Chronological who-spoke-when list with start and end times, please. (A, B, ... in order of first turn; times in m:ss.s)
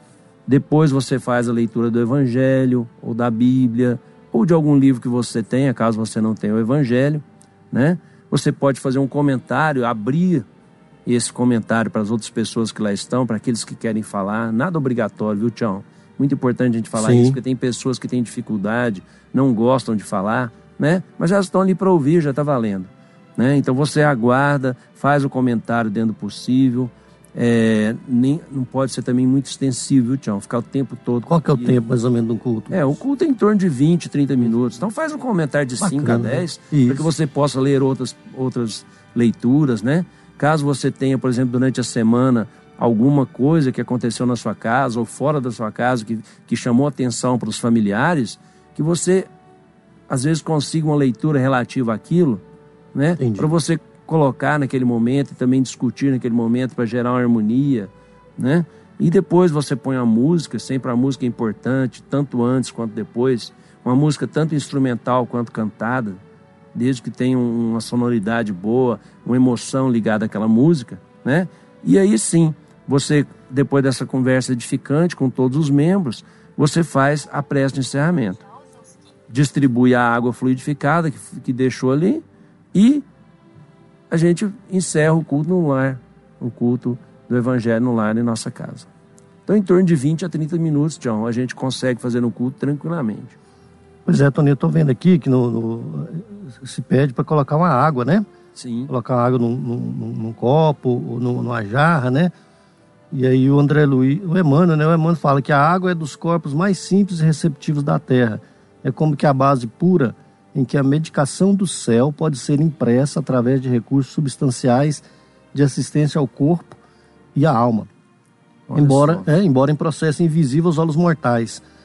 0:00.5-0:10.4 A
0:11.1-0:31.8 A
0:17.0-0:17.4 B
0:31.3-0:33.0 B
0:32.7-0:49.3 A
0:35.8-0:37.1 B
0:50.1-0:52.4 A
0:52.9-1:06.2 A
0:53.2-0:53.5 B
1:06.7-1:18.4 A
1:19.3-1:23.0 A
1:24.1-1:28.9 A
1:29.5-1:33.4 A
1:34.1-1:38.3 B
1:38.6-1:38.9 A
1:38.9-1:42.3 B
1:43.1-1:56.8 B
1:57.4-1:57.9 B
1:58.7-1:59.2 A
1:58.8-2:01.6 B